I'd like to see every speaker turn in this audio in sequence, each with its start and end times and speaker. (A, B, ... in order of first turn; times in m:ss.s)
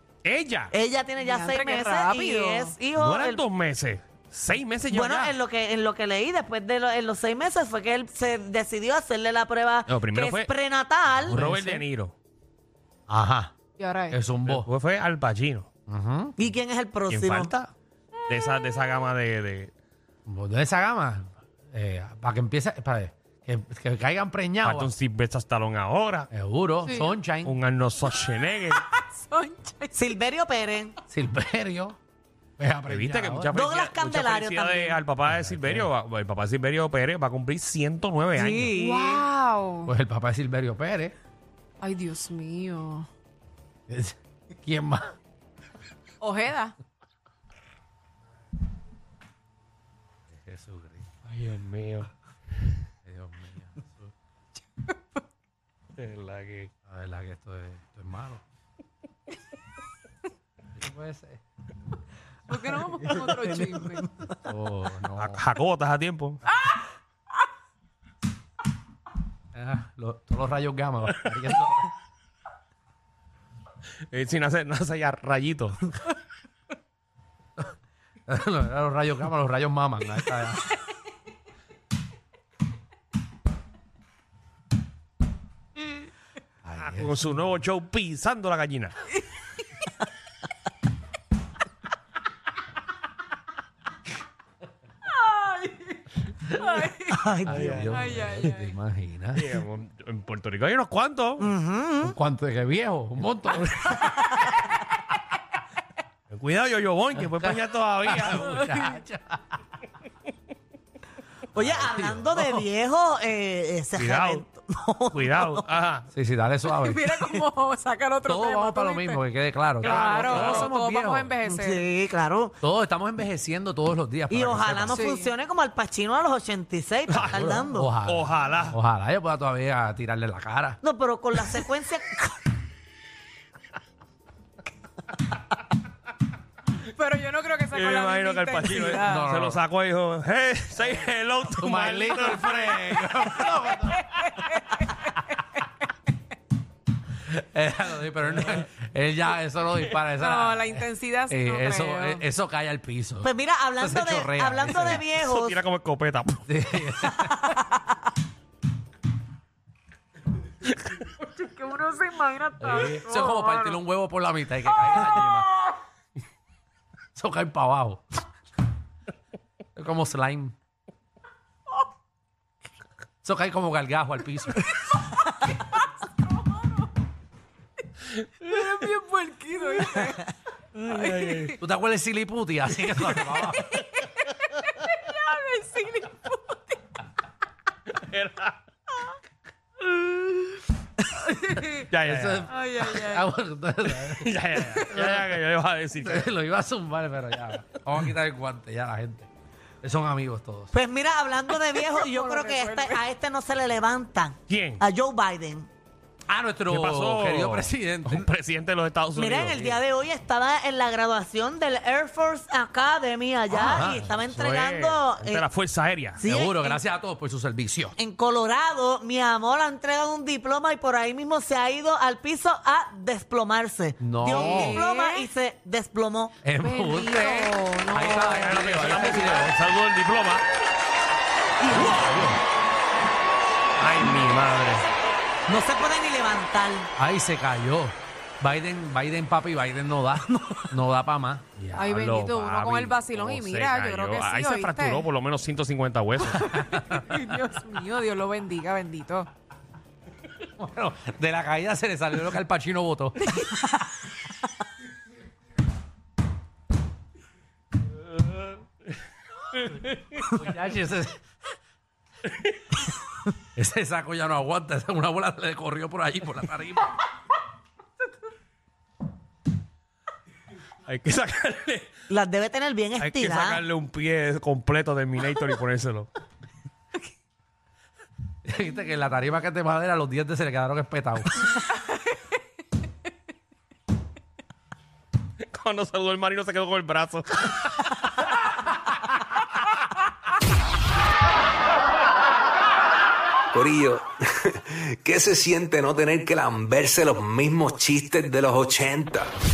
0:00.2-0:00.7 A
0:00.7-0:03.4 B
0:01.2-0:02.8 C
0:02.9-0:05.3 A
0:04.9-0:11.4 B
0:09.9-0:10.5 A
0:11.3-0:12.1 A
0:11.3-0:11.8 D
0:13.1-0:13.5 D
0:13.8-0:14.2 C
0:14.1-0:14.7 D
0:14.4-0:15.7 A
0:15.9-0:16.3 D
0:16.4-0:17.5 B
0:17.1-0:17.7 A
0:18.3-0:19.7 A
0:20.3-0:24.9 D
0:24.6-0:26.3 A
0:26.3-0:27.6 D
0:26.8-0:27.1 C
0:27.4-0:28.8 A
0:28.1-0:30.0 C
0:29.9-0:31.0 B
0:31.1-0:32.0 D
0:32.6-0:33.6 D
0:32.9-0:38.7 A
0:33.5-0:35.0 B
0:35.3-0:35.9 D
0:38.4-0:39.3 B
0:38.8-0:39.9 C
0:39.9-0:41.2 D
0:41.8-0:43.1 C
0:43.9-0:45.2 D
0:46.2-0:46.8 C
0:50.3-0:51.1 D
0:51.2-0:52.1 A
0:53.1-0:54.1 D
0:54.7-0:55.2 C
0:56.0-0:56.7 A
0:56.9-0:58.4 D
1:00.8-1:01.4 D
1:02.5-1:04.1 C
1:04.4-1:05.4 D
1:05.2-1:06.4 A
1:09.5-1:11.9 D
1:14.1-1:16.0 A
1:18.3-1:20.6 D
1:26.6-1:27.3 D
1:26.9-1:29.0 A
1:35.1-1:37.2 C
1:36.8-1:37.9 B
1:37.5-1:39.5 D
1:37.5-1:38.5 A
1:37.9-1:38.7 C
1:39.3-1:41.5 A
1:41.4-1:42.2 B
1:42.0-1:44.1 D
1:46.3-1:48.6 A
1:47.2-1:49.6 D
1:48.5-1:49.0 C
1:51.6-1:55.6 B
1:51.6-1:52.6 D
1:54.0-1:54.4 A
1:55.1-1:56.1 A
1:56.1-1:57.2 D
1:56.7-1:59.2 C
1:58.2-2:01.3 D
1:59.8-2:01.8 C
1:59.8-2:00.7 A
2:01.4-2:02.6 B
2:02.6-2:05.0 D
2:04.3-2:07.9 B
2:04.9-2:05.3 C
2:07.1-2:08.8 A
2:07.3-2:10.8 D
2:10.8-2:12.4 B
2:16.8-2:19.2 C
2:17.7-2:23.1 A
2:19.1-2:19.6 D
2:21.5-2:24.0 D
2:23.9-2:25.4 C
2:27.2-2:35.0 D
2:28.3-2:28.7 A
2:30.1-2:32.2 C
2:33.2-2:35.6 B
2:35.2-2:36.5 A
2:36.5-2:37.6 D
2:37.2-2:37.5 B
2:41.2-2:43.8 C
2:42.6-2:45.5 D
2:47.2-2:48.0 D
2:49.8-2:50.6 D
2:53.2-2:54.7 D
2:54.9-2:55.6 C
2:58.4-3:00.2 C
3:00.8-3:01.6 A
3:00.8-3:01.6 C
3:01.6-3:03.7 D
3:03.4-3:06.8 C
3:08.0-3:08.6 A
3:10.0-3:10.4 C
3:11.2-3:11.8 C
3:11.4-3:15.3 D
3:11.9-3:12.5 A
3:12.5-3:13.3 C
3:14.1-3:16.3 A
3:16.0-3:19.3 D
3:19.8-3:20.7 D
3:20.7-3:25.7 B
3:21.9-3:23.0 C
3:24.5-3:24.8 A
3:26.3-3:28.3 D
3:26.7-3:29.8 A
3:29.2-3:35.4 B
3:33.5-3:34.1 D
3:33.7-3:36.2 A
3:36.2-3:36.8 B
3:36.3-3:38.0 D
3:38.0-3:46.4 B
3:44.0-3:44.8 D
3:44.3-3:45.3 C
3:46.4-3:47.4 D
3:46.6-3:49.4 C
3:47.5-3:50.4 A
3:47.9-3:49.6 D
3:51.6-3:52.4 D
3:53.8-3:54.9 A
3:55.5-3:56.9 B
3:57.0-4:01.7 D
4:00.3-4:00.7 B
4:01.7-4:06.5 A
4:01.8-4:05.1 C
4:06.2-4:07.1 D
4:06.6-4:09.3 C
4:10.6-4:13.2 D
4:13.2-4:14.0 C
4:19.7-4:20.2 A
4:20.4-4:21.2 D
4:23.6-4:26.9 D
4:30.9-4:31.9 A
4:32.1-4:33.6 B
4:33.0-4:36.1 A
4:38.4-4:41.3 D
4:45.5-4:47.9 A
4:53.5-4:59.3 E